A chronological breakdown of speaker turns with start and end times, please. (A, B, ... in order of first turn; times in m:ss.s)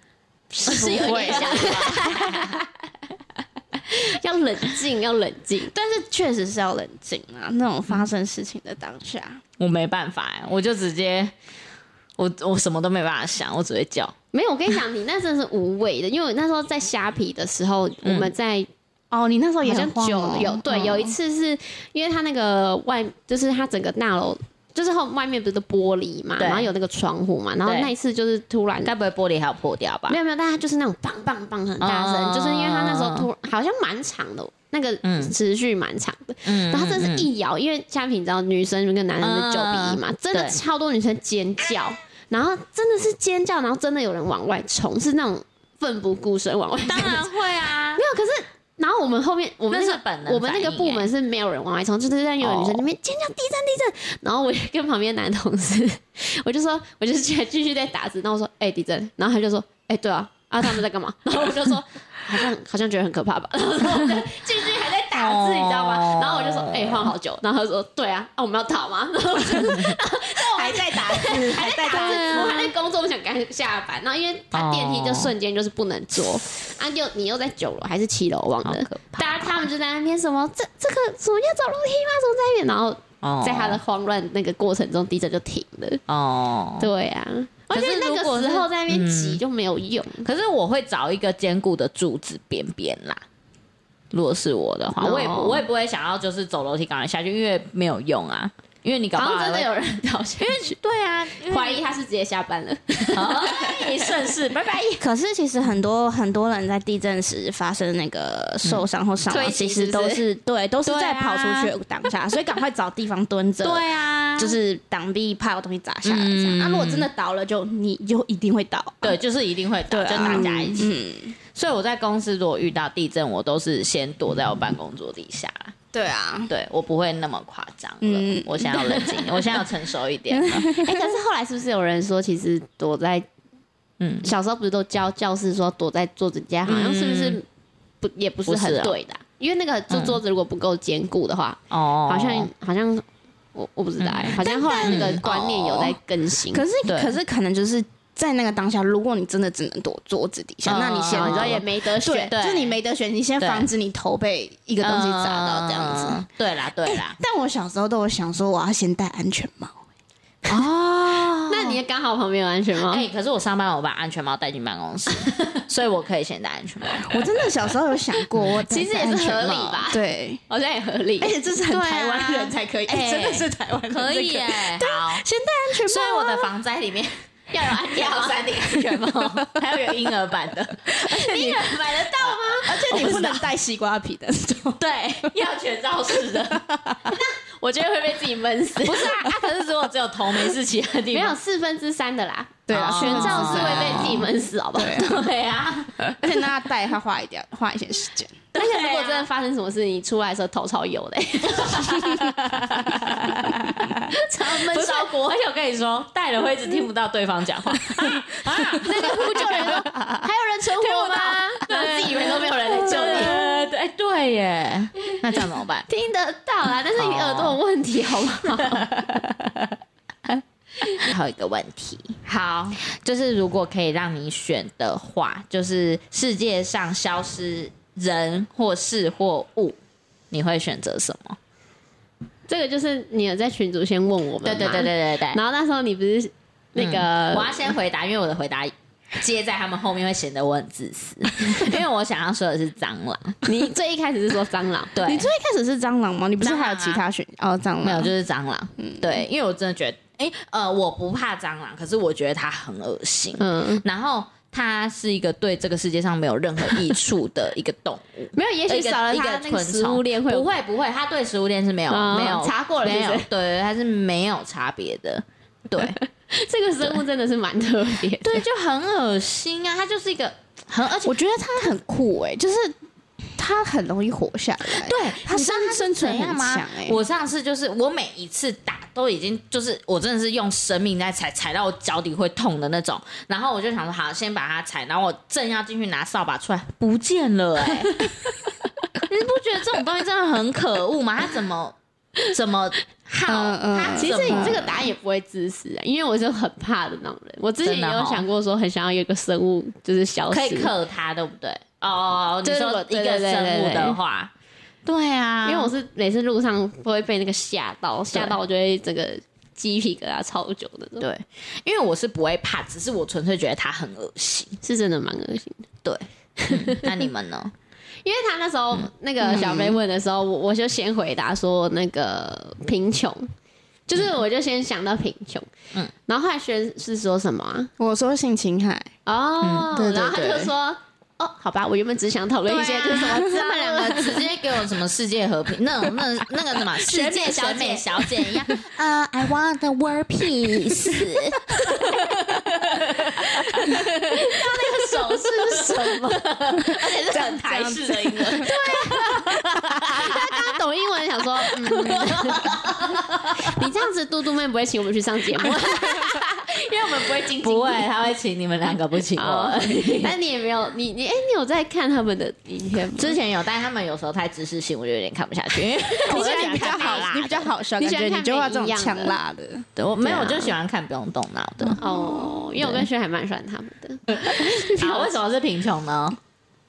0:00.5-0:02.6 A
0:00.6-0:02.4 B
0:00.7-0:02.6 C
0:03.8-0:05.7 A
0:05.7-0:09.4 B
0:09.6-0:11.3 C
0:12.2-0:14.1 C
0:14.3-0:18.7 A
0:18.0-0:18.3 C
0:19.1-0:21.1 B
0:19.6-0:28.9 A
0:26.4-0:26.7 C
0:27.6-0:27.9 C
0:28.8-0:30.2 C
0:30.1-0:47.3 A
0:31.8-0:33.3 C
0:35.0-0:35.3 C
0:36.5-0:37.3 C
0:39.2-0:40.6 C
0:46.9-0:48.0 C
0:48.0-1:26.0 A
0:49.7-0:51.1 C
0:52.4-0:52.8 C
1:05.1-1:07.1 C
1:09.6-1:09.9 C
1:10.5-1:12.6 B
1:11.9-1:12.7 C
1:14.5-1:15.3 C
1:18.6-1:19.6 C
1:23.2-1:23.8 C
1:26.1-1:26.9 C
1:26.8-1:30.3 A
1:27.7-1:29.4 C
1:30.2-1:33.2 C
1:34.1-1:39.7 C
1:35.0-1:35.6 A
1:39.2-1:40.8 A
1:40.4-1:41.8 C
1:41.4-1:44.2 A
1:43.1-1:45.1 C
1:45.0-1:59.2 B
1:49.3-1:50.2 A
1:50.8-1:51.7 C
1:53.6-1:54.6 C
1:56.0-1:57.1 C
1:59.0-2:00.9 C
1:59.9-2:01.4 B
2:01.6-2:05.8 C
2:05.9-2:06.5 B
2:06.5-2:10.7 C
2:08.0-2:08.8 B
2:08.7-2:09.4 A
2:10.3-2:11.1 B
2:10.8-2:13.3 A
2:14.0-2:14.3 C
2:14.2-2:17.4 A
2:16.7-2:17.4 C
2:18.0-2:26.7 A
2:18.5-2:19.0 C
2:19.9-2:20.2 C
2:21.7-2:22.5 C
2:24.0-2:25.2 C
2:24.4-2:26.0 B
2:26.5-2:36.2 B
2:26.8-2:27.2 C
2:30.6-2:31.6 C
2:31.1-2:32.3 A
2:32.3-2:32.8 C
2:33.4-2:33.7 C
2:34.8-2:37.2 C
2:36.8-2:39.8 B
2:40.5-2:41.8 C
2:41.5-2:43.1 A
2:42.9-2:47.4 C
2:47.0-2:50.4 B
2:48.6-2:51.4 A
2:49.4-2:49.8 C
2:51.2-2:56.5 B
2:51.7-3:03.5 C
2:57.5-2:58.5 A
3:01.0-3:03.2 A
3:02.6-3:05.4 B
3:04.8-3:06.7 C
3:06.4-3:07.2 B
3:07.1-3:09.2 A
3:08.8-3:11.4 C
3:11.1-3:15.2 A
3:12.7-3:15.2 B
3:12.7-3:14.3 C
3:14.9-3:16.1 C
3:16.0-3:18.4 B
3:18.5-3:19.3 C
3:18.5-3:22.3 A
3:21.6-3:29.8 C
3:24.0-3:25.1 A
3:28.8-3:33.4 A
3:30.8-3:35.9 C
3:35.9-3:38.9 A
3:37.0-3:37.6 C
3:38.8-3:39.2 C
3:40.8-3:49.8 C
3:50.3-3:51.4 C
3:52.5-3:57.8 A
3:54.4-3:55.4 C
3:56.8-4:03.5 C
4:03.4-4:05.0 A
4:05.0-4:05.3 C
4:05.0-4:08.1 B
4:06.4-4:07.0 C
4:07.8-4:26.0 C
4:08.8-4:09.2 B
4:13.4-4:13.8 A
4:18.4-4:20.5 A
4:21.9-4:23.3 A
4:25.8-4:28.4 A
4:28.2-4:31.8 C
4:31.0-4:32.7 B
4:33.4-4:37.0 B
4:34.6-4:48.3 C
4:49.0-4:54.8 C
4:53.3-4:54.7 B
4:53.8-5:00.7 A
4:57.6-4:58.2 C
5:00.3-5:04.3 C
5:02.4-5:04.0 A
5:04.9-5:05.7 C
5:05.4-5:11.1 A
5:08.1-5:08.4 C
5:11.0-5:14.6 C
5:14.6-5:15.7 A
5:15.8-5:17.5 C
5:16.4-5:17.0 A
5:18.0-5:23.3 A
5:19.3-5:19.8 B
5:23.9-5:25.5 A
5:26.1-5:27.7 A
5:27.8-5:28.9 B
5:29.1-5:34.3 A
5:29.4-5:29.7 C
5:29.7-5:30.5 B
5:32.5-5:42.2 C
5:32.7-5:34.2 B
5:36.8-5:38.5 A
5:39.9-5:44.2 B
5:42.9-5:50.3 C
5:44.1-5:46.2 A
5:46.6-5:48.6 B
5:48.4-5:49.3 A
5:49.2-5:50.1 B
5:49.8-5:52.6 A
5:51.6-5:53.6 C
5:51.7-5:52.5 B
5:53.4-5:57.9 A
5:55.6-5:55.9 C
5:56.7-6:00.2 C
5:59.2-6:03.2 A
6:03.0-6:07.5 C
6:05.8-6:07.1 A
6:06.0-6:09.7 B
6:07.8-6:09.2 A
6:09.8-6:11.8 C
6:10.0-6:10.6 A
6:11.7-6:12.3 B
6:11.8-6:15.2 A
6:12.6-6:12.8 C
6:14.1-6:16.2 C